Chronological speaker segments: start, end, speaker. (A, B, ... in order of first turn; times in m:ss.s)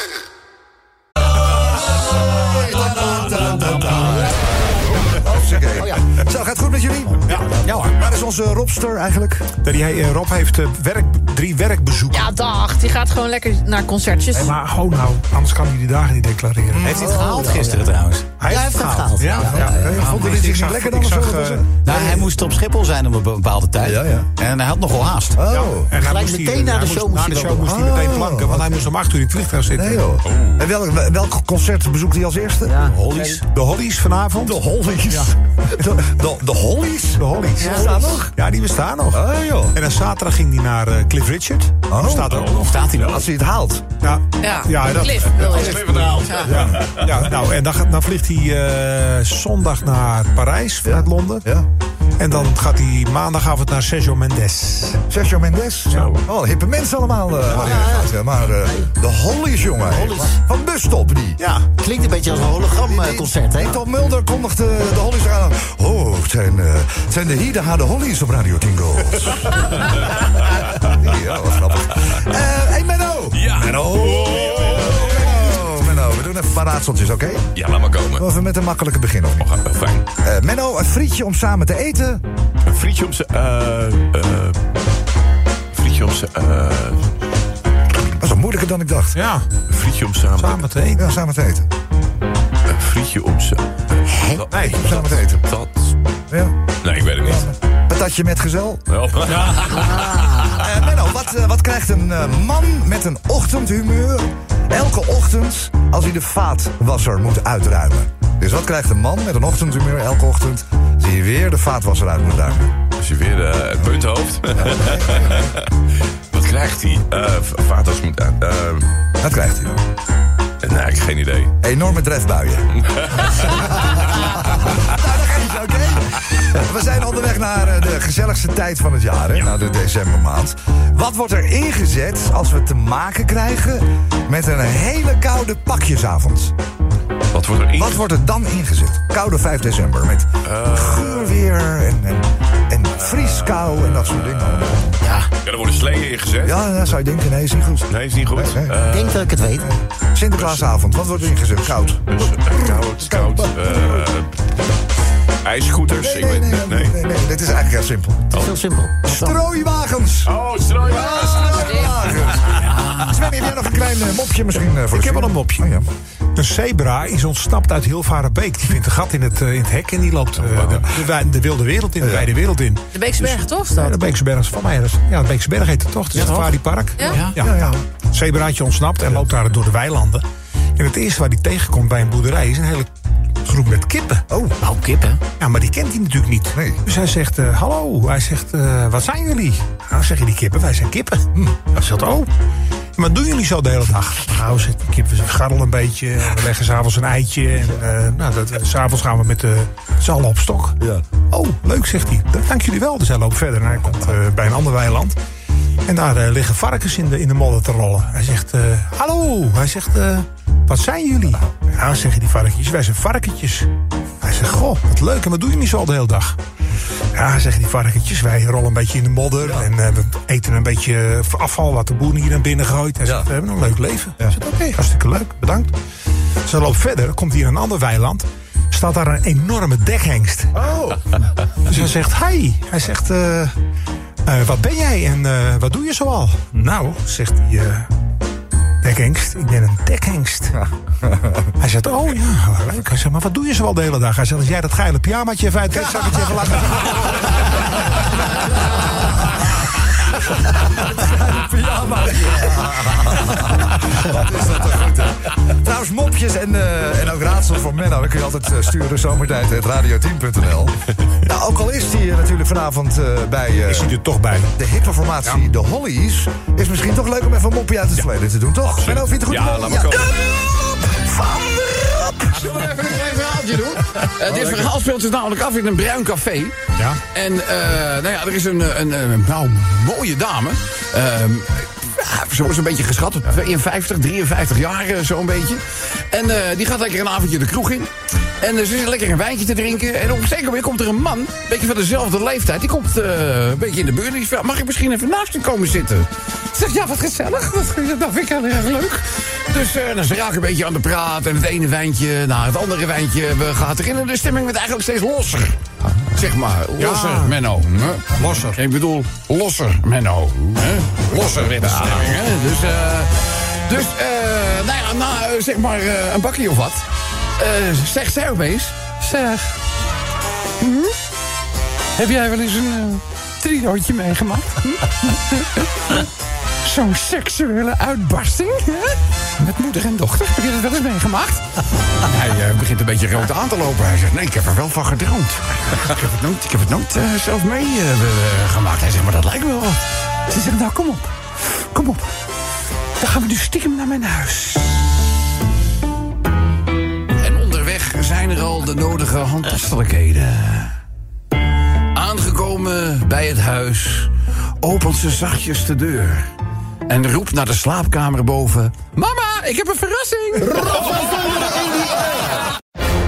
0:02.4-0:04.4 A
0:05.0-0:09.5 A
0:07.3-0:07.5 B
0:07.3-0:07.9 C
0:09.6-0:12.4 B
0:12.1-0:14.5 D
0:14.3-0:17.4 B
0:16.7-0:17.5 A
0:16.8-0:20.3 C
0:18.4-0:21.7 B
0:19.4-0:22.3 A
0:21.9-0:24.0 C
0:23.8-0:24.3 A
0:24.4-0:24.9 E
0:24.9-0:25.3 C
0:25.4-0:25.9 A
0:25.5-0:30.0 B
0:26.0-0:27.7 C
0:27.7-0:28.7 A
0:29.7-0:32.9 A
0:30.3-0:30.6 F
0:32.7-0:33.4 C
0:33.5-0:34.6 B
0:34.4-0:38.3 A
0:37.2-0:42.8 B
0:37.6-0:38.0 D
0:39.1-0:39.8 A
0:41.9-0:42.4 A
0:42.3-0:43.3 F
0:42.6-0:43.1 E
0:43.0-0:43.8 A
0:44.0-0:45.4 B
0:44.4-0:46.6 D
0:45.3-0:47.0 F
0:46.4-0:51.4 B
0:46.5-0:47.3 A
0:52.2-0:55.0 B
0:55.1-1:01.4 A
0:57.5-0:58.0 B
0:57.6-0:58.1 C
0:59.9-1:00.4 C
1:01.4-1:01.7 B
1:01.8-1:03.8 C
1:02.8-1:09.7 A
1:10.8-1:17.5 A
1:13.3-1:15.7 F
1:17.6-1:18.2 F
1:18.2-1:19.5 A
1:19.4-1:20.1 F
1:20.2-1:22.2 A
1:22.6-1:24.6 F
1:25.7-1:27.1 F
1:28.2-1:29.2 A
1:29.1-1:29.5 B
1:29.7-1:30.6 F
1:30.4-1:31.0 B
1:31.0-1:31.7 A
1:32.7-1:35.9 F
1:34.1-1:34.4 C
1:34.5-1:34.8 B
1:34.8-1:35.4 A
1:36.8-1:37.5 F
1:37.2-1:38.8 A
1:38.9-1:40.4 F
1:40.5-1:52.7 A
1:53.0-1:55.6 F
1:54.7-1:55.5 A
1:56.3-1:58.9 F
1:59.2-1:59.8 A
2:00.6-2:01.5 F
2:01.6-2:02.8 A
2:04.7-2:16.5 A
2:17.3-2:18.0 F
2:17.7-2:25.0 A
2:20.4-2:21.4 F
2:23.0-2:24.8 F
2:25.0-2:25.3 C
2:25.4-2:26.6 F
2:26.4-2:28.8 A
2:27.9-2:29.3 F
2:28.8-2:29.7 C
2:29.6-2:34.1 A
2:30.4-2:34.3 F
2:35.4-2:37.0 F
2:35.9-2:38.3 A
2:38.3-2:39.4 C
2:39.0-2:45.8 A
2:40.3-2:42.0 F
2:42.6-2:43.1 E
2:44.9-2:45.7 B
2:46.4-3:00.2 B
2:50.4-2:50.9 F
2:52.0-2:52.3 A
2:52.9-2:54.0 D
2:56.2-2:56.5 C
2:57.0-2:57.3 D
2:57.4-2:57.8 A
3:00.8-3:02.9 B
3:03.4-3:04.3 B
3:04.6-3:05.2 C
3:05.4-3:12.3 B
3:06.5-3:06.8 A
3:13.0-3:20.8 B
3:21.3-3:25.2 B
3:25.9-3:33.7 B
3:34.2-3:36.4 B
3:37.1-3:45.7 B
3:39.4-3:39.7 A
3:43.0-3:43.3 A
3:46.4-3:50.6 B
3:50.6-3:51.0 A
3:51.6-3:53.5 B
3:54.2-3:57.9 B
3:58.8-4:00.6 B
4:01.6-4:07.4 B
4:10.5-4:24.0 A
4:23.7-4:24.5 B
4:24.6-4:29.9 A
4:28.8-4:30.1 F
4:31.3-4:36.6 E
4:37.1-5:05.6 E
5:06.1-5:13.1 E
5:06.8-5:07.4 B
5:08.1-5:08.6 B
5:13.7-5:16.9 E
5:17.4-5:19.5 E
5:20.6-5:21.0 E
5:22.0-5:26.1 E
5:26.6-5:31.5 E
5:32.0-5:42.1 E
5:43.0-5:44.9 E
5:47.1-5:50.8 E
5:51.9-5:56.3 E
5:56.9-6:02.2 E